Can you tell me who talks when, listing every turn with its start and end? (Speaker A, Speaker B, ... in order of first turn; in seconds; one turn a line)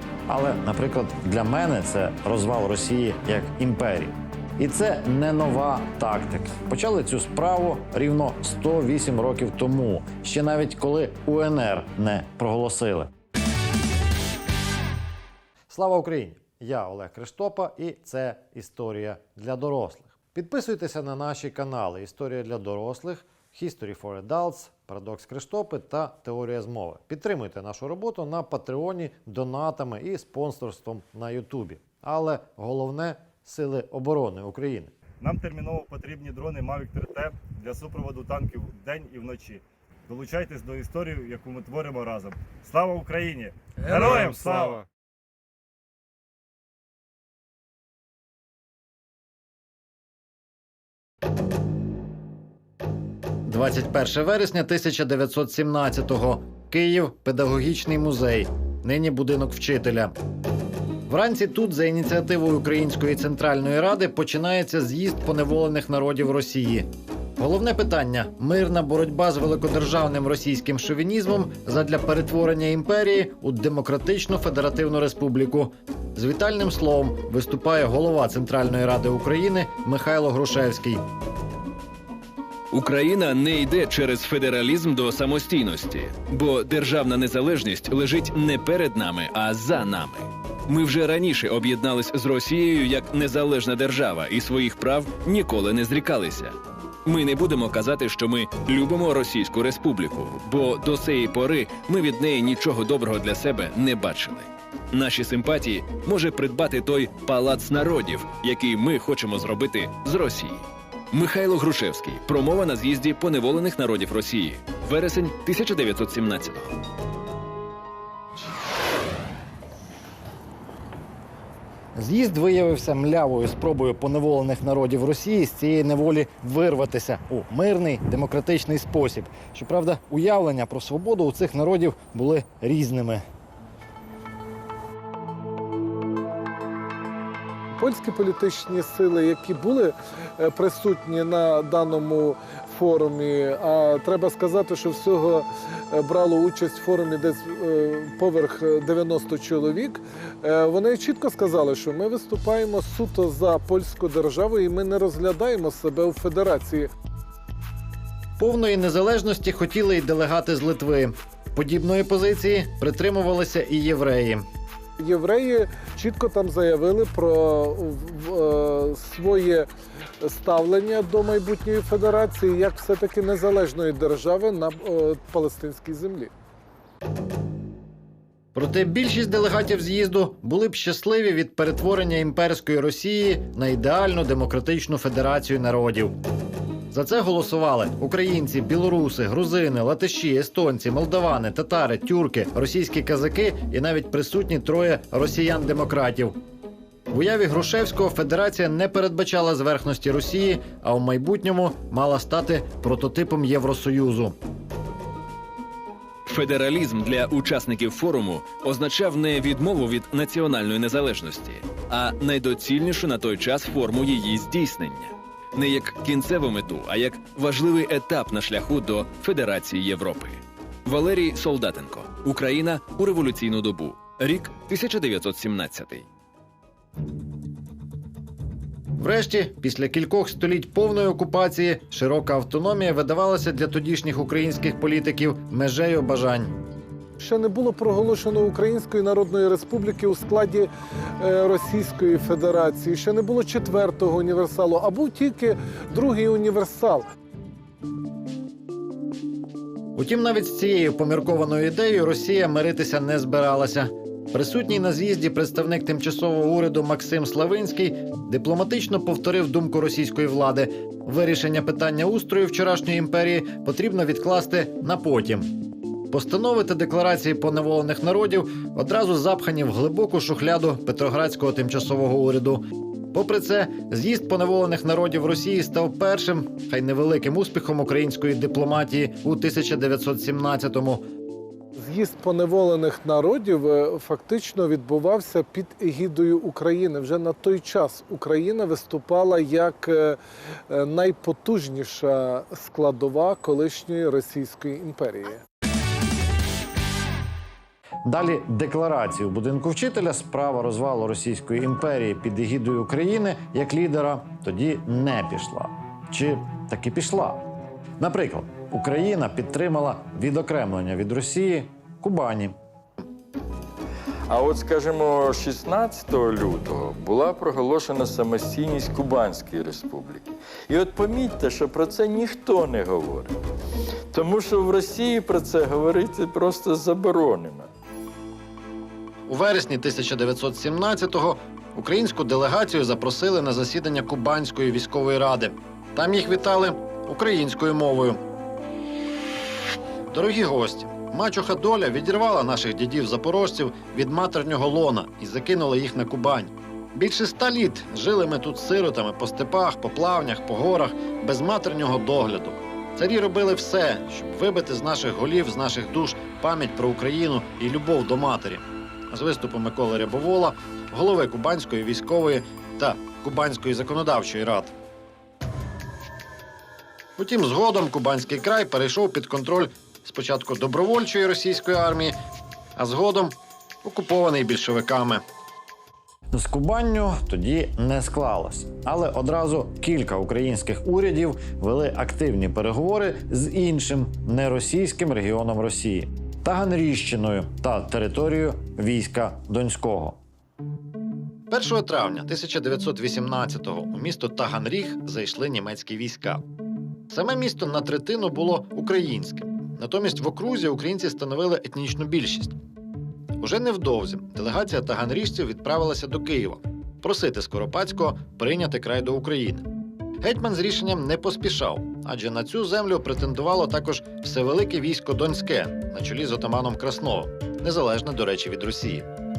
Speaker A: 0.3-13.1
Speaker A: 15.7-34.9
Speaker B: 35.2-44.8
Speaker A: 53.5-60.1
Speaker A: 61.1-81.0
Speaker C: 82.7-116.8
Speaker A: 122.0-133.2
Speaker D: 137.7-156.9
Speaker A: 158.4-164.4
Speaker D: 165.0-169.7
Speaker D: 170.2-176.3
Speaker A: 178.5-186.1
Speaker A: 186.9-196.4
Speaker A: 197.1-204.4
Speaker C: 206.3-226.1
Speaker A: 229.0-236.5
Speaker D: 237.2-247.1
Speaker A: 250.0-265.6
Speaker A: 266.1-281.1
Speaker D: 281.8-290.2
Speaker D: 290.7-295.4
Speaker A: 298.1-307.4
Speaker A: 308.0-312.6
Speaker E: 314.3-320.2
Speaker E: 320.7-323.3
Speaker E: 324.1-327.7
Speaker A: 329.3-338.2
Speaker A: 340.1-364.7
Speaker A: 367.2-372.2
Speaker A: 372.8-375.2
Speaker A: 376.3-390.2
Speaker A: 391.5-396.4
Speaker A: 397.1-402.6
Speaker A: 403.4-409.6
Speaker A: 410.2-419.1